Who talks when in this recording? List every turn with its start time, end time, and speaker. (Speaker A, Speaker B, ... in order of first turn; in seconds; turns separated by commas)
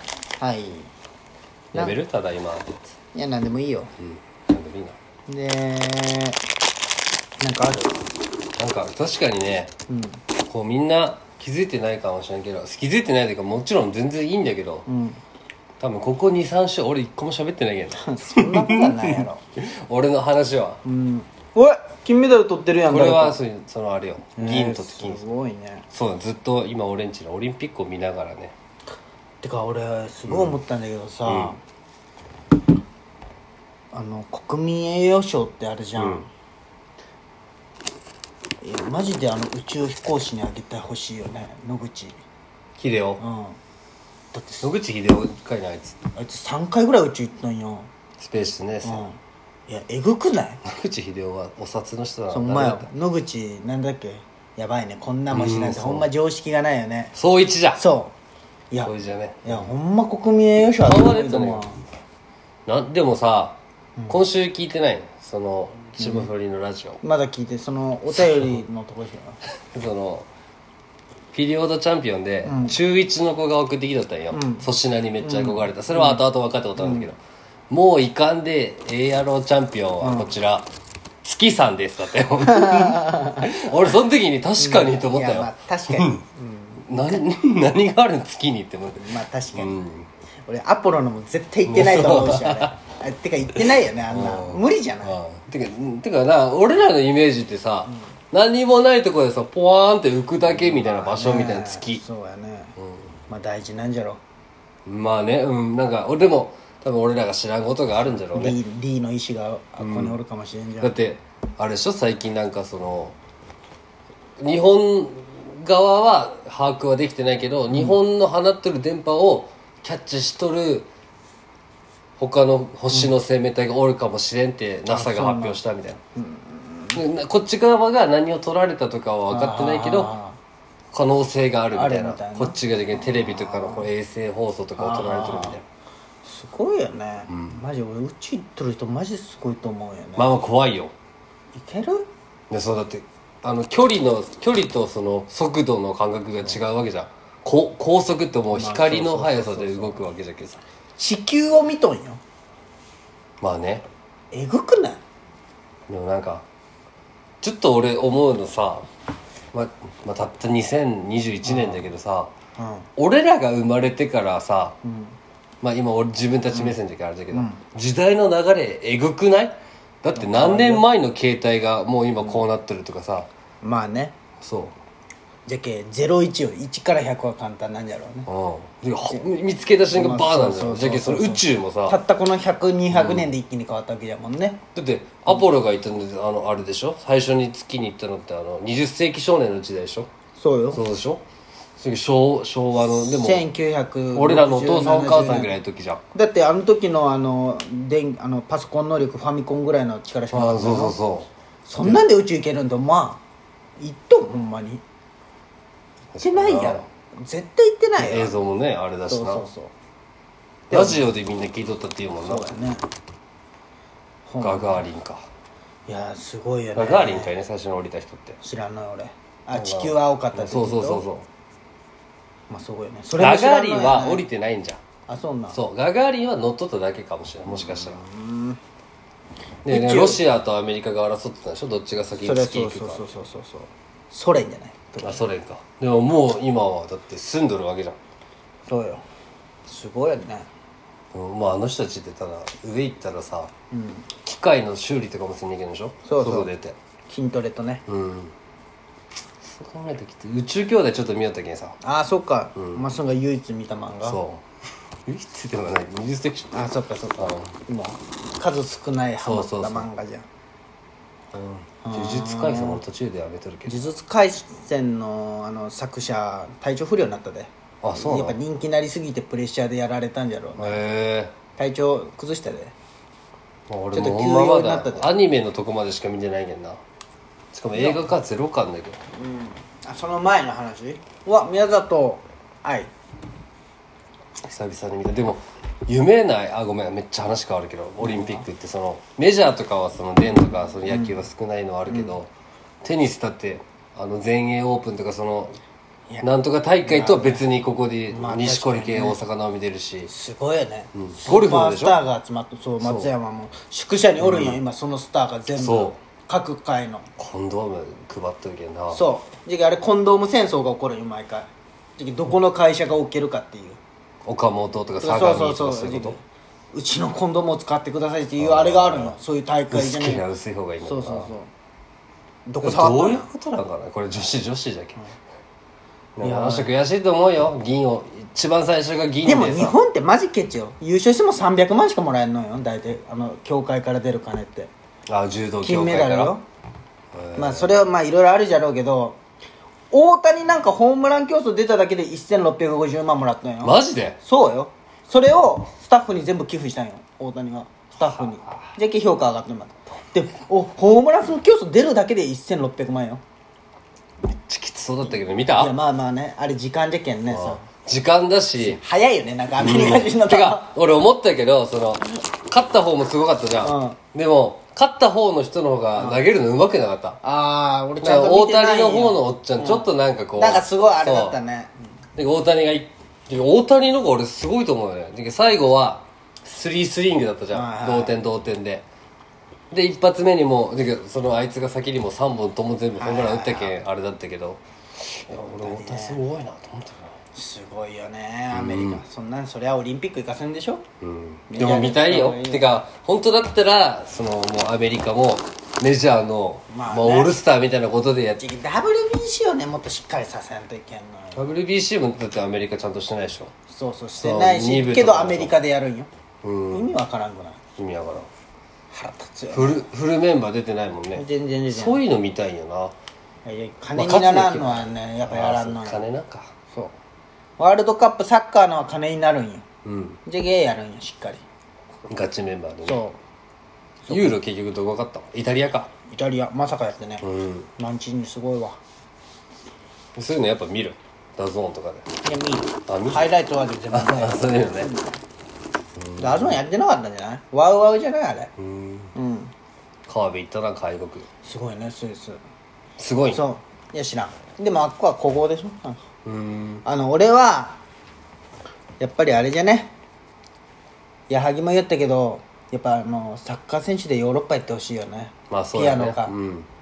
Speaker A: 0.4-0.9, Speaker B: 1.7-2.8, Speaker A: 3.1-3.9, Speaker B: 4.0-5.0, Speaker A: 5.3-6.4, Speaker A: 7.4-8.0, Speaker B: 8.6-9.7, Speaker A: 9.9-10.2, Speaker B: 10.5-14.8, Speaker A: 14.8-15.2, Speaker B: 15.8-20.8, Speaker A: 17.9-19.4, Speaker A: 20.8-23.4, Speaker B: 22.9-25.2, Speaker A: 24.4-25.9, Speaker B: 25.9-28.5, Speaker A: 29.4-31.6, Speaker B: 30.3-30.6, Speaker B: 31.2-31.6, Speaker A: 33.9-36.3, Speaker B: 36.0-36.3, Speaker A: 38.6-42.2, Speaker B: 42.8-43.2, Speaker A: 43.2-43.6, Speaker A: 44.3-44.7, Speaker B: 44.6-46.0, Speaker A: 46.1-47.9, Speaker B: 48.2-49.0, Speaker A: 48.8-49.1, Speaker A: 49.7-50.6, Speaker B: 50.6-52.9, Speaker A: 52.3-57.1, Speaker B: 55.3-56.1, Speaker B: 57.1-57.8, Speaker A: 57.8-58.1, Speaker B: 58.8-59.7, Speaker A: 59.4-61.8, Speaker B: 60.8-61.7, Speaker B: 62.6-63.6, Speaker A: 64.0-64.2, Speaker B: 64.1-67.0, Speaker A: 66.0-66.3, Speaker A: 67.0-69.4, Speaker B: 68.1-68.6, Speaker B: 69.7-70.3, Speaker B: 71.3-77.2, Speaker A: 72.4-72.8, Speaker A: 74.3-74.7, Speaker A: 75.2-76.2, Speaker A: 76.8-77.1, Speaker B: 77.7-80.7, Speaker A: 80.0-80.3, Speaker B: 81.2-86.2, Speaker A: 82.5-83.5, Speaker A: 84.6-87.2, Speaker B: 86.8-90.1, Speaker A: 89.0-89.8, Speaker A: 90.5-95.2, Speaker B: 91.7-92.7, Speaker B: 93.5-102.0, Speaker A: 100.4-102.7, Speaker B: 102.8-103.1, Speaker A: 103.3-104.2, Speaker B: 104.8-108.6, Speaker A: 108.3-110.9, Speaker B: 109.8-110.2, Speaker B: 110.8-113.1, Speaker B: 114.4-120.9, Speaker A: 117.7-118.0, Speaker B: 122.2-126.0, Speaker A: 124.9-125.6, Speaker A: 126.2-127.0, Speaker B: 126.9-130.1, Speaker A: 129.3-130.4, Speaker B: 130.9-135.6, Speaker A: 131.7-133.9, Speaker A: 134.8-135.6, Speaker A: 136.2-140.3, Speaker B: 137.3-137.6, Speaker B: 140.2-140.9, Speaker A: 141.5-142.1, Speaker B: 142.5-150.6, Speaker A: 148.5-150.1, Speaker A: 151.0-152.2, Speaker B: 153.4-153.8, Speaker A: 154.3-155.0, Speaker B: 155.9-156.4, Speaker B: 157.4-158.8, Speaker B: 159.5-162.3, Speaker A: 161.4-161.9, Speaker A: 162.6-162.9, Speaker B: 163.0-164.8, Speaker A: 164.8-165.2, Speaker B: 165.6-173.3, Speaker A: 166.5-166.8, Speaker A: 167.3-167.6, Speaker A: 170.1-170.8, Speaker A: 173.6-174.2, Speaker B: 174.4-174.8, Speaker A: 175.4-178.3, Speaker B: 178.3-182.0, Speaker A: 179.1-184.6, Speaker B: 182.9-183.3, Speaker B: 184.7-190.1, Speaker A: 190.4-190.8, Speaker B: 190.7-191.2, Speaker B: 191.8-193.5, Speaker A: 192.8-195.5, Speaker B: 194.1-196.0, Speaker A: 196.1-201.0, Speaker B: 200.3-201.3, Speaker A: 201.6-203.2, Speaker A: 203.8-204.8, Speaker B: 206.1-206.8, Speaker A: 206.2-208.3, Speaker B: 208.0-209.5, Speaker A: 209.1-209.7, Speaker A: 210.7-211.0, Speaker B: 210.7-212.5, Speaker A: 212.2-212.8, Speaker A: 214.3-214.8, Speaker B: 214.4-215.2, Speaker A: 215.9-217.3, Speaker B: 216.8-218.4, Speaker A: 218.4-221.0, Speaker B: 219.5-221.3, Speaker A: 222.5-224.2, Speaker B: 223.2-224.8, Speaker A: 225.1-225.6, Speaker B: 225.5-228.0, Speaker A: 227.4-228.6, Speaker B: 229.6-233.0, Speaker A: 229.7-230.2, Speaker A: 232.2-235.2, Speaker B: 235.0-238.0, Speaker A: 238.7-239.0, Speaker A: 239.7-240.5, Speaker B: 241.1-243.5, Speaker A: 243.7-244.1, Speaker B: 244.2-246.8, Speaker A: 246.0-246.5, Speaker A: 247.1-247.8, Speaker B: 247.9-248.3, Speaker B: 249.4-251.8, Speaker A: 251.8-254.2, Speaker B: 252.6-252.8, Speaker B: 254.0-254.4, Speaker B: 255.1-256.7, Speaker A: 256.5-260.2, Speaker B: 257.2-257.5, Speaker B: 259.2-259.9, Speaker B: 261.3-263.9, Speaker A: 261.8-262.8, Speaker A: 263.6-270.8, Speaker B: 267.8-268.4, Speaker B: 270.6-271.3, Speaker A: 271.6-272.7, Speaker B: 273.7-276.8, Speaker A: 273.9-275.1, Speaker B: 277.5-279.0, Speaker A: 277.7-278.0, Speaker A: 279.1-282.9, Speaker B: 284.4-292.3, Speaker A: 288.0-288.4, Speaker A: 290.9-291.2, Speaker A: 291.9-292.1, Speaker B: 292.8-295.6, Speaker B: 296.2-300.1, Speaker A: 296.8-297.4, Speaker A: 298.1-299.2, Speaker A: 300.1-307.1, Speaker B: 300.9-302.0, Speaker B: 302.8-303.1, Speaker B: 304.2-304.6, Speaker B: 305.5-306.0, Speaker B: 307.2-309.0, Speaker A: 308.9-313.8, Speaker B: 314.2-316.2, Speaker A: 315.0-320.2, Speaker B: 318.4-319.2, Speaker B: 319.7-321.3, Speaker A: 320.8-321.5, Speaker A: 322.4-323.3, Speaker B: 322.6-325.0, Speaker B: 326.1-329.8, Speaker A: 326.2-326.7, Speaker A: 329.2-334.7, Speaker B: 335.1-336.4, Speaker A: 335.6-336.4, Speaker B: 337.1-337.7, Speaker A: 337.4-339.2, Speaker A: 339.9-353.2, Speaker B: 343.6-344.2, Speaker B: 354.3-355.7, Speaker A: 355.5-357.6, Speaker B: 357.3-358.8, Speaker A: 358.6-360.7, Speaker B: 359.6-367.2, Speaker A: 363.6-364.0, Speaker A: 366.0-366.2, Speaker A: 367.2-371.7, Speaker B: 368.0-371.4, Speaker B: 372.1-378.8, Speaker A: 377.5-378.1, Speaker B: 379.7-387.1, Speaker A: 383.0-383.8, Speaker A: 385.3-386.2, Speaker A: 387.3-390.8, Speaker B: 388.5-389.0, Speaker B: 391.0-398.4, Speaker A: 391.5-392.8, Speaker A: 396.7-397.3, Speaker A: 398.4-401.5, Speaker B: 401.4-403.5, Speaker A: 403.7-406.1, Speaker B: 404.2-405.5, Speaker B: 406.4-406.9, Speaker A: 406.7-407.6, Speaker B: 407.8-408.3, Speaker A: 408.9-409.8, Speaker B: 409.5-412.9, Speaker A: 411.1-412.0, Speaker A: 413.4-416.0, Speaker B: 413.9-416.5, Speaker A: 417.6-419.6, Speaker B: 419.8-420.2, Speaker A: 420.2-421.4, Speaker B: 422.1-423.0, Speaker A: 422.8-423.2, Speaker A: 424.0-424.4, Speaker B: 424.1-425.9, Speaker A: 426.1-427.2, Speaker B: 427.2-427.7, Speaker A: 427.8-428.8, Speaker B: 430.1-432.1, Speaker A: 432.2-435.2, Speaker B: 432.9-433.3, Speaker B: 433.9-434.9, Speaker B: 435.9-436.6, Speaker A: 436.2-438.5, Speaker B: 438.6-439.1, Speaker A: 439.1-439.5, Speaker B: 440.1-441.3, Speaker A: 441.4-442.4, Speaker B: 443.0-443.4, Speaker A: 443.3-446.0, Speaker B: 446.2-446.8, Speaker A: 446.8-447.8, Speaker A: 449.0-449.9, Speaker A: 451.3-456.3, Speaker B: 455.5-456.7